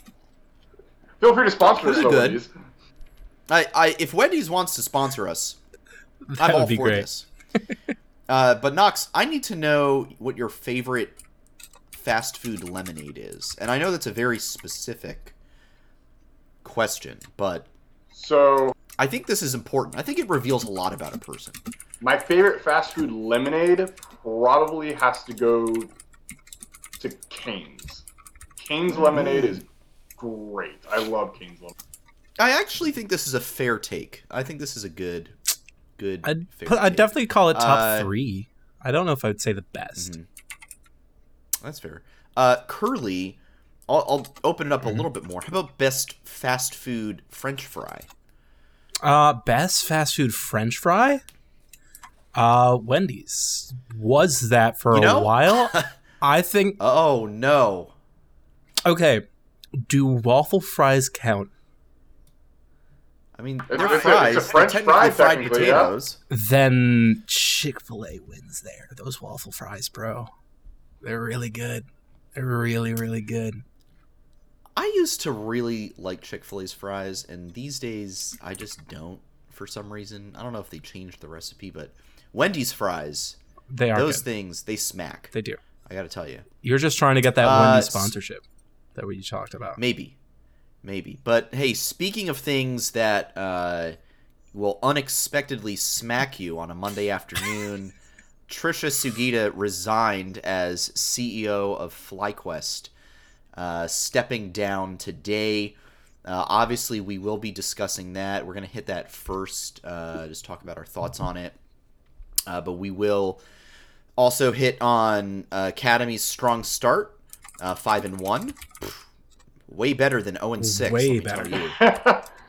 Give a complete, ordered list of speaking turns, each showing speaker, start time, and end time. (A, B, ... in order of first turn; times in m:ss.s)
0:01.2-0:02.5 A
0:01.7-0:02.4 B
0:03.5-0:05.6 B
0:06.3-0:07.9 C
0:06.4-0:07.2 B
0:08.3-0:11.2 B
0:11.9-0:15.3 B
0:16.6-0:17.7 B
0:18.1-0:18.7 A
0:19.0-0:21.6 B
0:22.0-0:25.9 A
0:27.0-0:28.0 A
0:28.6-0:29.6 A
0:29.1-0:29.6 B
0:30.2-0:31.7 A
0:32.4-0:35.4 B
0:36.0-0:38.1 B
0:36.2-0:40.1 C
0:40.0-0:40.3 B
0:41.6-0:43.4 B
0:43.9-0:48.1 B
0:49.0-0:51.2 C
0:52.3-0:56.8 C
0:54.9-0:55.9 B
0:56.8-0:57.9 B
0:58.8-0:59.2 C
0:59.7-1:01.5 C
1:03.4-1:06.2 B
1:03.7-1:05.9 A
1:06.3-1:10.3 C
1:11.0-1:13.6 C
1:14.8-1:23.4 B
1:23.7-1:24.2 C
1:23.9-1:25.3 B
1:25.3-1:25.6 C
1:25.8-1:26.4 B
1:26.6-1:28.4 C
1:27.4-1:28.1 B
1:29.0-1:29.8 C
1:29.8-1:30.2 B
1:30.8-1:34.0 B
1:34.5-1:37.9 B
1:38.5-1:42.9 B
1:43.5-1:51.6 B
1:52.5-1:53.4 B
1:54.2-1:59.0 B
1:59.7-2:01.8 B
2:00.6-2:01.6 C
2:01.8-2:02.3 A